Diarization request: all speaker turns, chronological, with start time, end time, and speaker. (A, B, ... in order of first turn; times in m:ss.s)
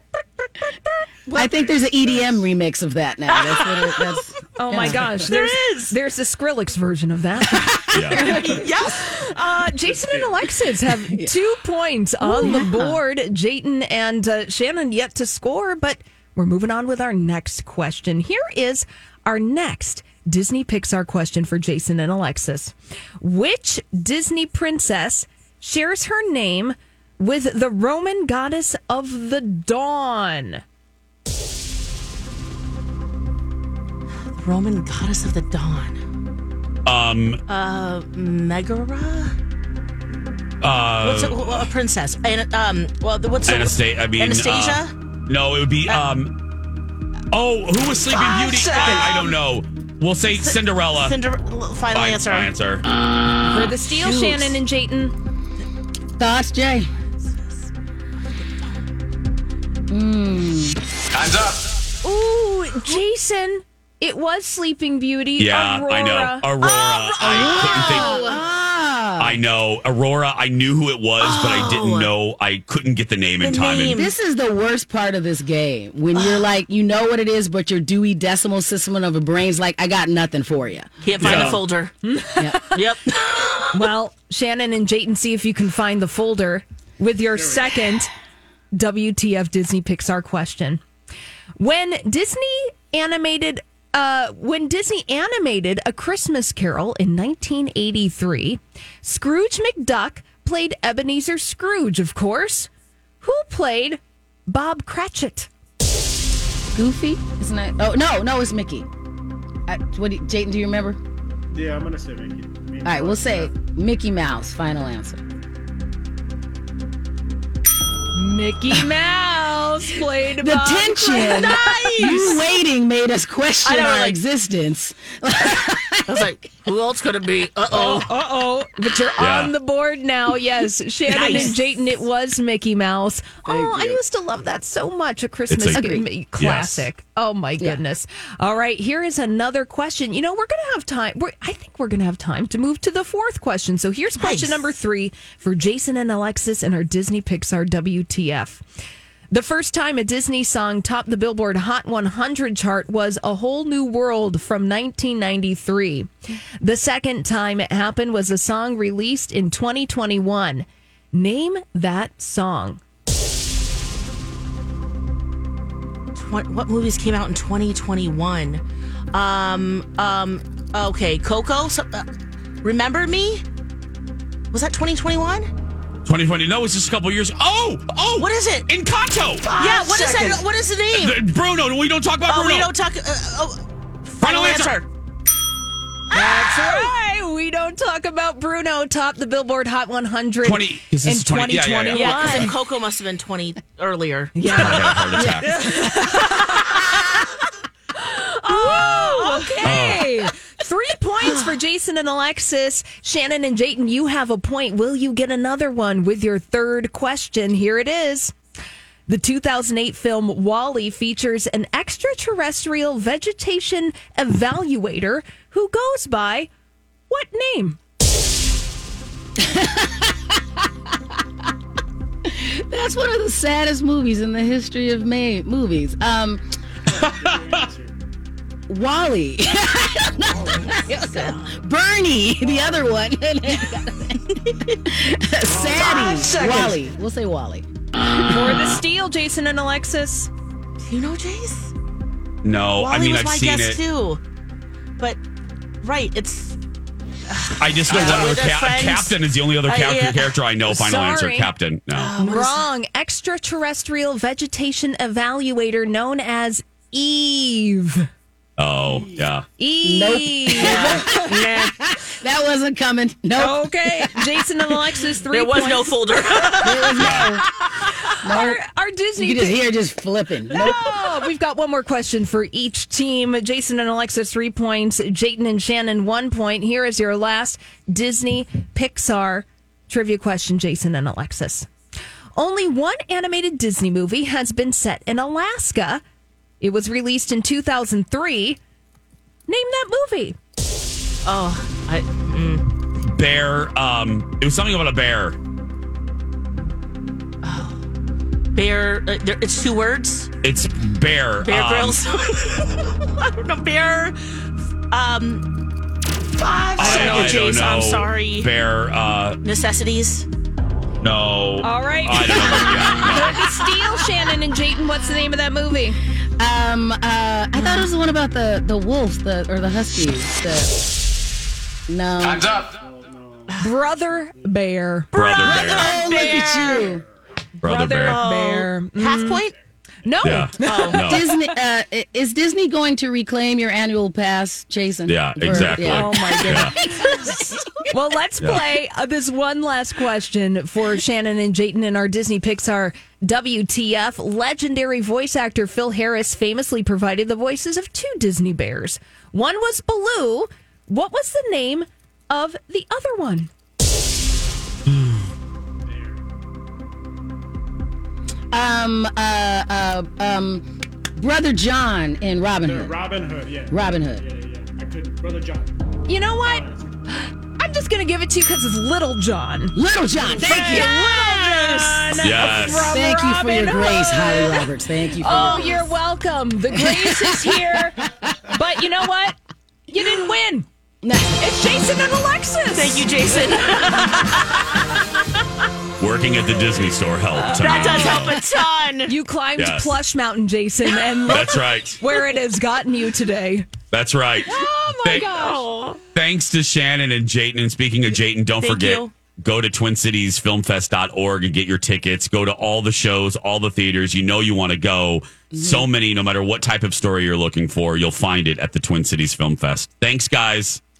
0:01.3-0:05.1 A
0:01.4-0:02.5 B
0:03.3-0:04.2 C
0:04.6-0:30.6 D
0:05.0-0:05.3 B
0:05.2-0:05.9 C
0:07.9-0:08.4 E
0:08.1-0:09.1 C
0:09.8-0:10.5 B
0:12.2-0:13.0 A
0:34.4-0:36.0 C
0:36.8-0:37.4 E
0:37.5-0:39.3 C
0:40.6-0:41.7 E
0:41.0-0:44.9 C
0:43.4-0:46.4 E
0:45.9-0:46.1 C
0:47.3-0:51.2 E
0:48.1-0:49.3 C
0:50.3-0:52.5 C
0:51.9-0:52.8 E
0:53.5-0:55.1 D
0:53.9-0:54.6 C
0:56.2-0:56.9 A
0:59.9-1:00.8 A
1:02.0-1:08.4 D
1:05.4-1:08.1 E
1:07.2-1:09.4 A
1:09.2-1:14.1 E
1:11.2-1:12.1 C
1:13.4-1:14.1 C
1:13.9-1:21.5 A
1:16.2-1:16.4 C
1:21.0-1:21.9 C
1:21.2-1:21.6 E
1:22.0-1:22.8 D
1:22.7-1:23.8 C
1:23.7-1:28.1 D
1:27.3-1:27.7 B
1:28.7-1:30.8 D
1:31.6-1:42.7 D
1:43.2-1:45.5 D
1:46.7-1:48.9 A
1:49.7-1:51.0 A
1:51.5-1:53.5 B
1:52.8-1:55.2 A
1:58.1-2:02.3 D
2:00.4-2:06.3 A
2:01.1-2:02.4 C
2:03.6-2:04.2 C
2:06.1-2:08.1 C
2:07.7-2:28.6 D
2:09.2-2:09.5 E
2:11.0-2:11.6 C
2:15.5-2:16.8 E
2:15.7-2:16.0 A
2:24.2-2:24.6 C
2:29.3-2:36.1 D
2:36.6-2:42.8 D
2:46.1-2:52.0 C
2:52.6-2:53.4 C
2:54.5-2:55.5 C
2:56.0-2:59.5 E
2:58.2-2:58.7 C
2:59.4-3:00.4 D
2:59.5-3:01.2 C
3:00.9-3:02.7 E
3:02.3-3:04.8 C
3:04.2-3:04.8 E
3:06.1-3:12.5 D
3:06.1-3:06.5 A
3:06.1-3:06.9 C
3:10.4-3:12.5 E
3:11.9-3:15.4 C
3:14.3-3:17.2 D
3:14.5-3:15.5 E
3:15.9-3:16.4 C
3:17.9-3:28.3 D
3:18.5-3:19.9 C
3:19.6-3:20.1 E
3:29.1-3:36.5 D
3:37.1-3:37.8 D
3:39.5-3:40.1 A
3:42.4-3:46.4 A
3:46.9-3:48.0 B
3:48.7-3:57.6 A
3:50.3-3:50.9 B
3:50.5-3:51.5 C
3:52.4-3:52.8 B
3:55.5-3:56.7 B
3:55.8-3:56.7 C
3:58.2-4:00.3 D
4:00.8-4:01.7 C
4:02.4-4:03.8 E
4:02.8-4:04.2 C
4:05.8-4:06.6 C
4:07.3-4:10.4 C
4:07.6-4:12.1 E
4:10.6-4:11.5 D
4:11.9-4:12.6 C
4:12.2-4:18.1 D
4:18.6-4:19.4 E
4:19.6-4:21.2 D
4:19.8-4:24.1 A
4:20.6-4:21.7 C
4:23.4-4:26.0 D
4:25.3-4:27.2 C
4:26.6-4:27.4 A
4:27.0-4:27.4 E
4:27.7-4:29.6 D
4:28.2-4:28.6 A
4:29.2-4:30.9 A
4:30.5-4:41.7 D
4:42.3-4:46.0 D
4:46.6-4:48.6 D
4:49.5-4:50.4 D
4:51.2-4:52.7 C
4:53.1-4:55.4 E
4:57.4-4:57.8 C
4:58.5-5:00.3 C
5:00.4-5:02.0 E
5:01.4-5:04.2 C
5:04.9-5:05.6 C
5:06.3-5:08.5 C
5:06.7-5:09.4 E
5:09.4-5:10.3 C
5:11.0-5:13.4 E
5:11.6-5:16.0 D
5:16.4-5:20.7 A
5:17.5-5:17.9 C
5:21.9-5:22.6 A
5:22.6-5:24.5 B
5:23.6-5:25.1 D
5:25.1-5:26.9 C
5:25.1-5:25.9 E
5:25.4-5:27.0 A
5:25.5-5:27.1 B
5:27.6-5:28.2 E
5:27.6-5:29.4 D
5:28.0-5:29.5 C
5:29.5-5:30.4 B
5:30.0-5:31.4 D
5:30.2-5:31.3 E
5:30.6-5:31.0 C
5:31.0-5:36.6 A
5:35.0-5:36.8 E
5:35.5-5:53.5 D
5:55.8-5:56.2 B
5:58.5-6:00.6 A
6:01.2-6:03.0 A
6:02.6-6:07.0 B
6:03.7-6:04.2 A
6:06.0-6:09.8 D
6:09.7-6:10.9 A
6:10.3-6:19.4 D
6:10.4-6:12.8 C
6:12.1-6:12.9 E
6:12.8-6:15.9 A
6:15.2-6:15.8 C
6:16.9-6:17.4 A
6:19.9-6:20.6 D
6:21.0-6:21.4 A
6:21.4-6:23.3 D
6:22.7-6:24.8 C
6:26.0-6:28.4 E
6:27.3-6:28.3 D
6:27.6-6:29.1 C
6:29.1-6:33.7 D
6:29.6-6:29.9 E
6:31.2-6:32.0 E
6:33.9-6:34.5 E
6:34.4-6:35.6 D
6:35.0-6:35.3 E
6:35.1-6:36.0 C
6:36.1-6:50.8 E
6:38.6-6:39.1 C
6:45.5-6:45.9 A